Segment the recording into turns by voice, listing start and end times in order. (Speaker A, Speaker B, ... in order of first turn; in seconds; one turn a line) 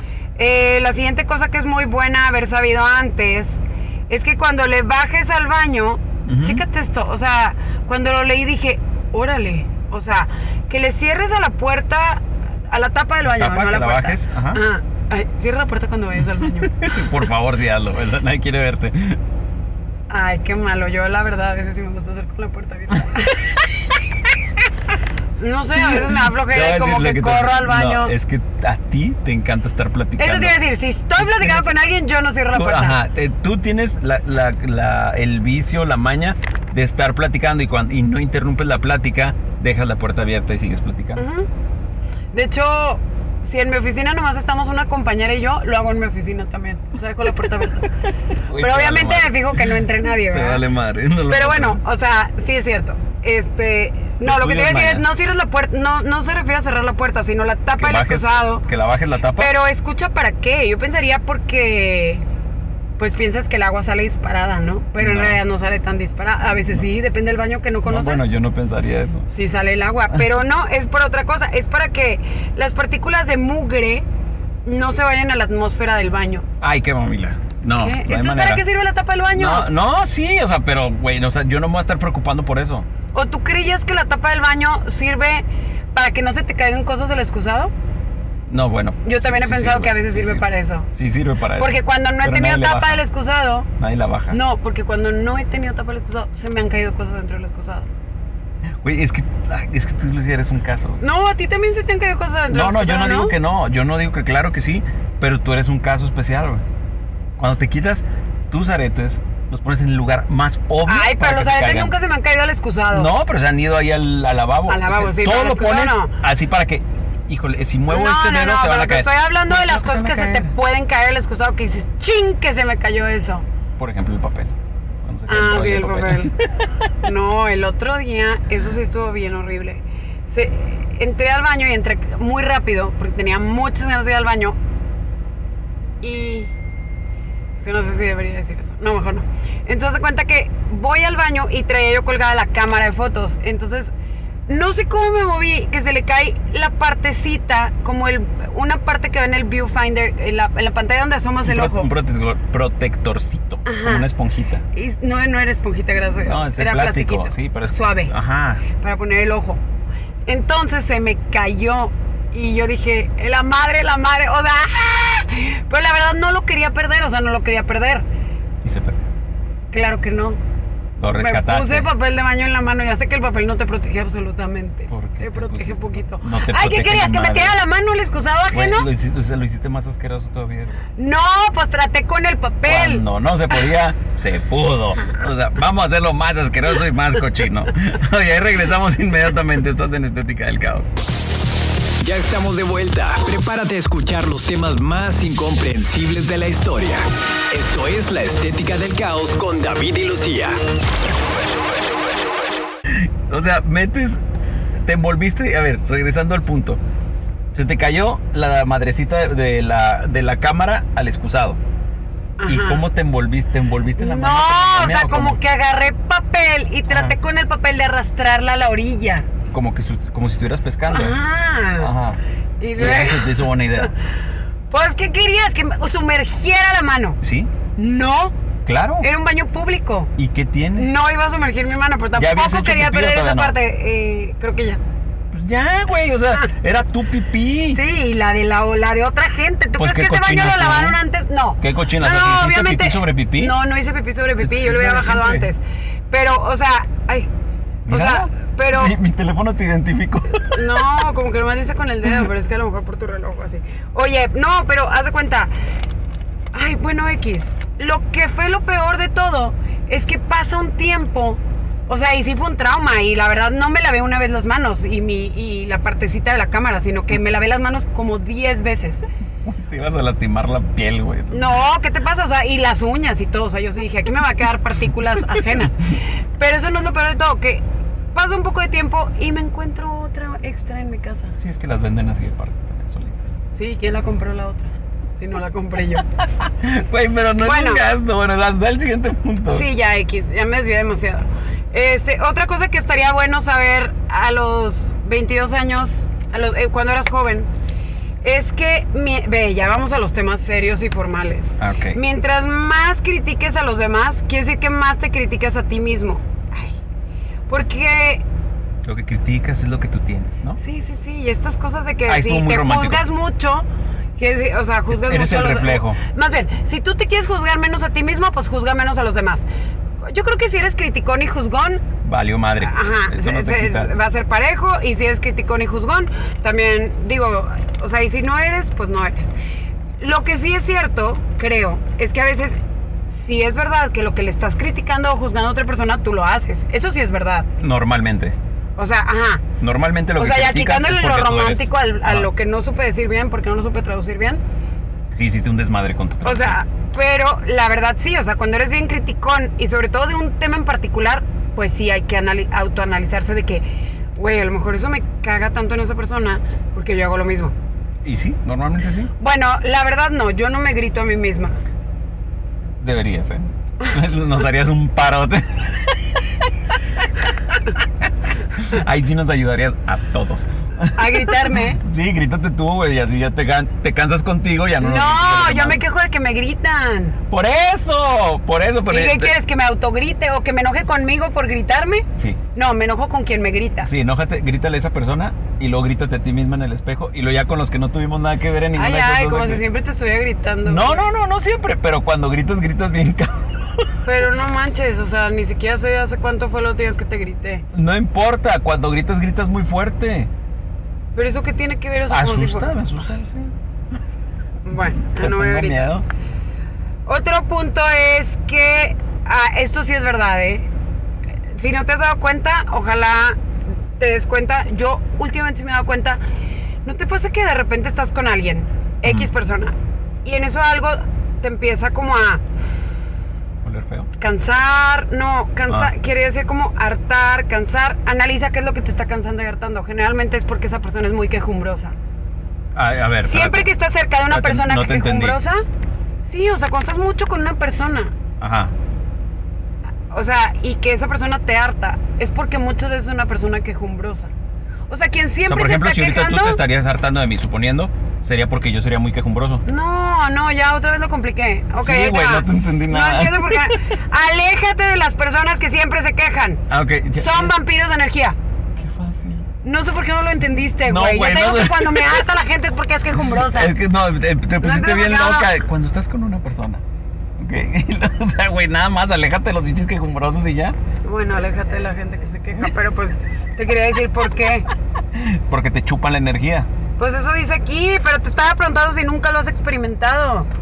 Speaker A: 0.4-17.0
Speaker B: 6.2-6.6
Speaker B: 13.2-14.6
Speaker B: 16.6-19.2
Speaker A: 20.1-23.5
Speaker A: 25.4-28.1
Speaker B: 25.8-30.6
Speaker A: 30.2-33.0
Speaker B: 31.2-31.8
Speaker B: 32.5-41.2
Speaker A: 41.2-41.5
Speaker A: 42.3-47.9
Speaker B: 48.5-51.8
Speaker A: 48.6-50.6
Speaker A: 51.3-58.7
Speaker B: 54.2-55.1
Speaker B: 57.8-59.5
Speaker A: 59.4-62.2
Speaker A: 63.0-68.2
Speaker B: 65.0-65.4
Speaker B: 67.8-69.3
Speaker A: 69.3-74.0
Speaker A: 74.7-76.5
Speaker B: 76.6-78.6
Speaker A: 77.8-79.7
Speaker B: 79.3-82.9
Speaker A: 83.1-87.7
Speaker B: 88.5-93.0
Speaker A: 89.0-90.9
Speaker A: 91.6-93.7
Speaker B: 93.8-94.4
Speaker A: 94.3-97.9
Speaker B: 98.8-101.0
Speaker A: 101.0-103.4
Speaker B: 102.5-106.6
Speaker B: 107.4-111.9
Speaker A: 110.9-113.1
Speaker B: 112.9-120.5
Speaker A: 114.7-116.1
Speaker A: 117.9-123.5
Speaker B: 123.8-126.7
Speaker A: 125.3-126.3
Speaker A: 127.0-134.6
Speaker A: 136.0-136.5
Speaker A: 137.6-143.9
Speaker A: 144.5-151.9
Speaker B: 151.4-154.6
Speaker A: 153.7-154.1
Speaker A: 154.7-158.1
Speaker B: 156.2-158.7
Speaker A: 158.7-159.6
Speaker A: 160.3-168.1
Speaker B: 168.6-169.0
Speaker A: 169.7-170.4
Speaker B: 171.0-171.9
Speaker A: 171.1-178.9
Speaker B: 174.9-177.6
Speaker B: 178.5-180.8
Speaker A: 181.0-183.0
Speaker B: 182.7-190.9
Speaker C: 192.0-200.6
Speaker B: 202.9-204.2
Speaker B: 204.7-206.8
Speaker B: 207.5-211.6
Speaker A: 212.4-212.8
Speaker B: 212.5-215.4
Speaker A: 214.0-219.3
Speaker B: 216.9-217.2
Speaker B: 219.5-221.2
Speaker A: 220.9-221.9
Speaker B: 221.8-222.2
Speaker A: 222.6-223.9
Speaker B: 222.8-223.9
Speaker A: 224.7-227.2
Speaker B: 227.2-227.5
Speaker A: 227.8-228.3
Speaker B: 228.7-229.1
Speaker A: 229.0-230.1
Speaker B: 230.2-230.9
Speaker A: 230.8-234.8
Speaker B: 232.2-233.6
Speaker B: 235.3-237.8
Speaker A: 237.7-247.3
Speaker B: 239.8-241.0
Speaker B: 241.6-243.6
Speaker B: 244.4-245.5
Speaker B: 247.9-250.8
Speaker A: 247.9-249.0
Speaker A: 250.4-255.5
Speaker A: 256.5-269.1
Speaker B: 269.4-271.6
Speaker A: 271.3-277.6
Speaker B: 275.4-275.6
Speaker A: 278.1-281.4
Speaker B: 281.4-283.4
Speaker A: 283.6-286.1
Speaker B: 286.4-289.7
Speaker A: 287.4-287.9
Speaker A: 289.5-297.5
Speaker A: 298.2-306.8
Speaker B: 301.6-302.0
Speaker A: 307.5-308.2
Speaker B: 308.8-310.6
Speaker A: 310.6-313.7
Speaker B: 312.1-313.1
Speaker A: 314.2-319.5
Speaker B: 314.9-316.0
Speaker A: 320.0-321.8
Speaker B: 322.0-323.9
Speaker A: 322.6-329.3
Speaker A: 330.0-337.5
Speaker B: 337.6-338.4
Speaker A: 338.8-339.4
Speaker B: 339.6-342.3
Speaker A: 340.2-344.4
Speaker B: 345.1-346.6
Speaker A: 346.2-353.6
Speaker A: 354.2-357.6
Speaker B: 358.0-359.1
Speaker A: 359.2-361.6
Speaker B: 362.8-366.5
Speaker B: 368.5-375.8
Speaker A: 370.9-371.8
Speaker A: 374.8-377.2
Speaker B: 377.3-379.3
Speaker A: 378.9-383.9
Speaker B: 383.8-389.6
Speaker A: 388.8-391.1
Speaker B: 390.6-393.9
Speaker A: 394.1-397.7
Speaker B: 397.7-400.3
Speaker A: 401.1-402.8
Speaker B: 402.1-403.6
Speaker A: 404.6-405.9
Speaker B: 404.7-406.1
Speaker A: 407.1-410.7
Speaker A: 411.5-413.4
Speaker A: 414.0-416.2
Speaker A: 416.9-419.7
Speaker B: 419.0-419.3
Speaker A: 420.2-422.4
Speaker B: 423.6-424.1
Speaker A: 424.2-431.9
Speaker B: 432.7-433.7
Speaker A: 433.2-435.6
Speaker B: 434.3-435.4
Speaker A: 436.3-438.1
Speaker B: 438.4-438.7
Speaker A: 440.1-444.3
Speaker A: 444.9-446.6
Speaker B: 445.5-449.6
Speaker A: 449.7-456.6
Speaker B: 451.8-453.8
Speaker B: 456.7-457.5
Speaker A: 457.1-458.4
Speaker B: 458.8-459.5
Speaker A: 459.6-463.7
Speaker B: 460.9-462.2
Speaker B: 463.4-466.8
Speaker A: 464.6-465.6
Speaker B: 467.4-470.8
Speaker A: 471.1-474.7
Speaker B: 475.1-476.7
Speaker A: 477.0-480.5